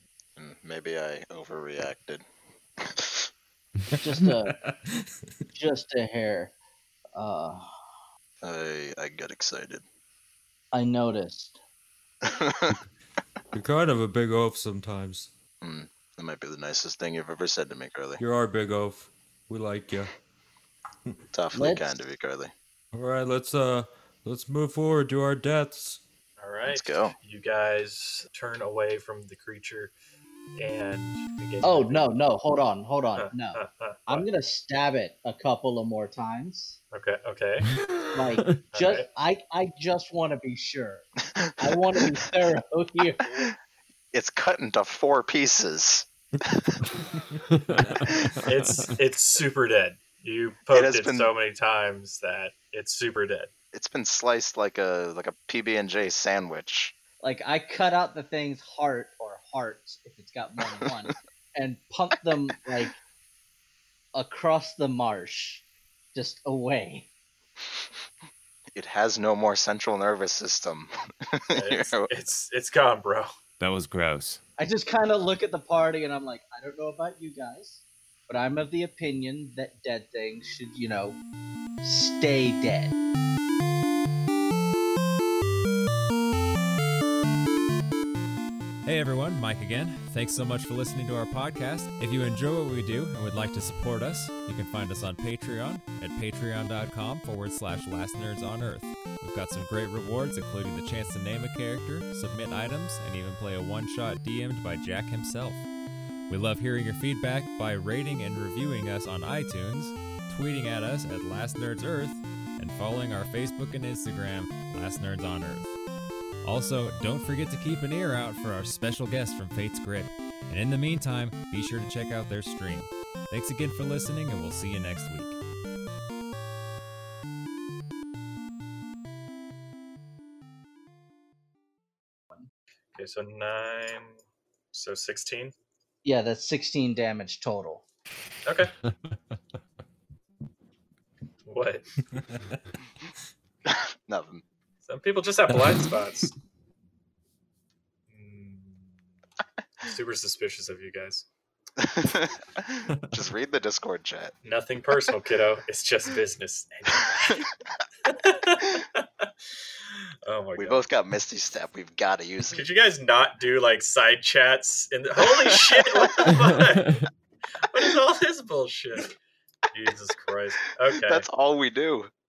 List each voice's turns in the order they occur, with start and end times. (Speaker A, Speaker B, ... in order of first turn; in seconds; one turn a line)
Speaker A: 0.4-2.2
Speaker A: 2.8-3.3
Speaker B: 4.0-5.1
Speaker C: 4.0-4.6
Speaker C: 5.5-6.5
Speaker C: 7.1-7.7
Speaker A: 8.4-9.8
Speaker C: 10.7-11.6
Speaker A: 12.2-12.8
Speaker B: 13.5-15.3
Speaker A: 15.6-18.2
Speaker B: 18.2-20.1
Speaker A: 21.3-22.5
Speaker C: 21.5-22.0
Speaker B: 22.9-26.0
Speaker D: 26.4-29.9
Speaker A: 26.7-27.1
Speaker D: 30.6-32.1
Speaker C: 31.6-36.8
Speaker D: 33.2-34.3
Speaker D: 36.9-37.7
Speaker C: 38.1-41.1
Speaker D: 38.7-39.1
Speaker A: 41.5-42.0
Speaker C: 41.6-43.5
Speaker A: 43.3-43.5
Speaker A: 44.1-46.9
Speaker E: 47.5-48.9
Speaker A: 48.0-48.4
Speaker D: 48.5-53.5
Speaker A: 50.7-51.3
Speaker A: 53.7-56.9
Speaker C: 57.2-63.0
Speaker C: 64.1-65.6
Speaker C: 66.1-67.1
Speaker A: 68.7-72.1
Speaker D: 71.5-73.3
Speaker E: 73.6-74.4
Speaker C: 74.6-81.2
Speaker C: 81.8-82.9
Speaker E: 88.8-105.7
Speaker E: 106.3-115.7
Speaker E: 116.4-125.4
Speaker D: 132.9-134.2
Speaker D: 134.7-135.5
Speaker C: 136.0-137.8
Speaker D: 138.4-138.7
Speaker D: 141.4-141.8
Speaker B: 142.2-142.5
Speaker A: 143.7-144.4
Speaker D: 144.8-146.3
Speaker D: 148.1-148.9
Speaker D: 149.8-151.3
Speaker A: 151.8-154.3
Speaker D: 154.4-157.4
Speaker D: 158.1-159.3
Speaker D: 160.2-160.8
Speaker A: 160.6-162.6
Speaker D: 162.5-167.1
Speaker A: 165.2-166.6
Speaker D: 167.7-169.1
Speaker D: 169.7-171.3
Speaker A: 171.1-172.1